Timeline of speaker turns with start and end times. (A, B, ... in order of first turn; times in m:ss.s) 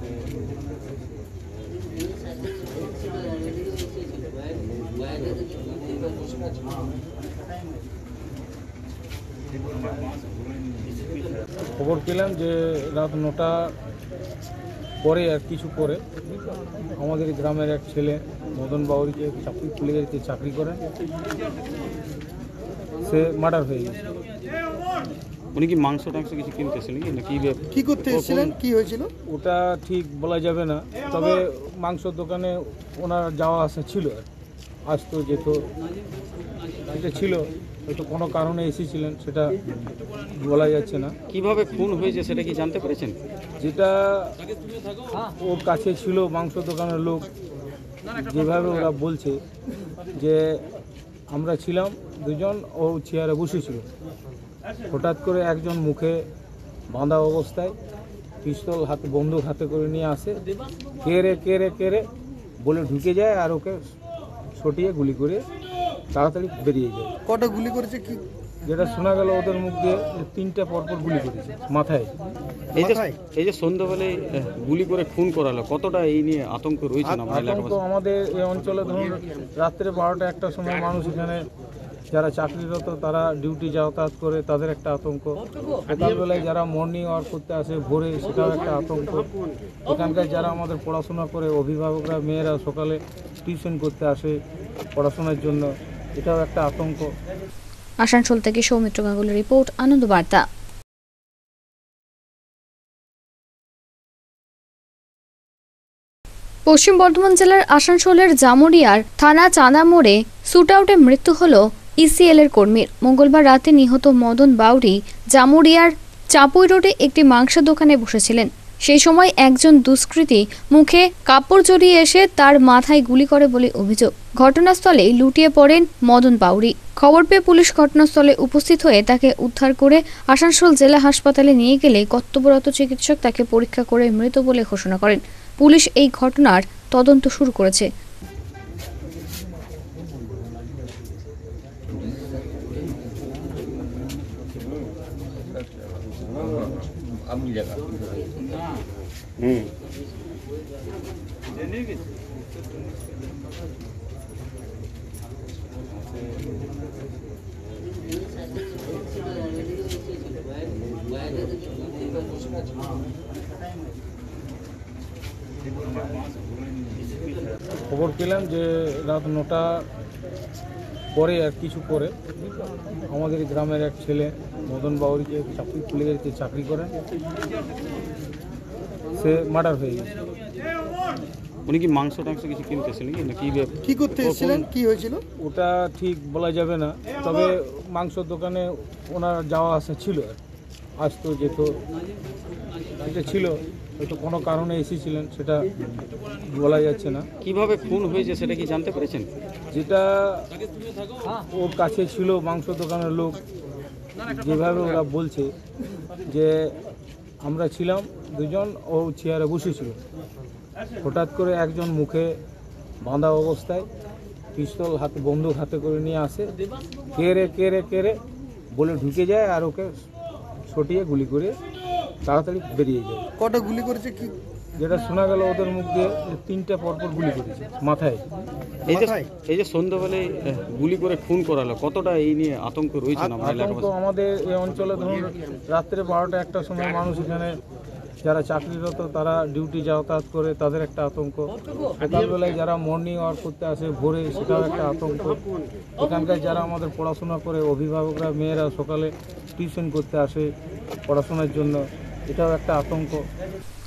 0:11.8-0:13.7 A
0:15.0-0:16.0 A
0:17.0-0:20.8 A
0:23.0-0:24.0 A
0:25.6-0:28.6 B
0:27.7-0:29.1 C
0:29.3-0:34.2 A
0:34.9-0:35.6 A
0:36.9-0:39.6 A
0:40.3-0:41.1 A
0:41.3-0:43.2 B
0:43.6-0:44.3 A
0:45.2-0:47.3 A
0:48.2-0:49.4 A
0:50.1-0:50.4 A
0:51.3-0:53.8 A
0:54.9-0:56.2 A
0:56.9-0:57.7 A
0:58.4-1:00.4 A
1:01.0-1:02.1 A
1:02.6-1:03.8 A
1:04.6-1:05.4 A
1:06.1-1:07.1 A
1:07.3-1:08.2 C
1:08.6-1:12.1 A
1:12.8-1:13.2 C
1:12.8-1:17.8 B
1:17.1-1:21.4 A
1:22.1-1:29.3 A
1:29.9-1:34.4 A
1:35.0-1:37.1 A
1:38.0-1:40.4 D
1:46.7-2:17.9 D
2:47.9-2:49.8 A
2:51.1-2:52.1 A
2:53.1-2:56.9 A
2:59.1-3:00.1 A
3:01.7-3:04.7 B
3:03.8-3:05.2 C
3:05.4-3:10.4 A
3:11.0-3:11.7 A
3:13.0-3:15.6 A
3:16.5-3:17.2 A
3:17.4-3:19.3 B
3:19.7-3:20.5 A
3:21.3-3:23.4 A
3:24.3-3:25.5 A
3:26.3-3:26.5 A
3:27.4-3:30.0 A
3:31.0-3:32.3 A
3:33.0-3:33.8 A
3:34.6-3:36.5 A
3:37.1-3:38.2 A
3:38.8-3:39.9 A
3:40.7-3:41.6 A
3:42.2-3:43.2 A
3:43.4-3:44.3 C
3:44.8-3:48.2 A
3:48.9-3:53.9 B
3:48.9-3:49.3 C
3:53.2-3:57.6 A
3:58.2-4:05.4 A
4:06.0-4:10.5 A
4:11.1-4:13.2 A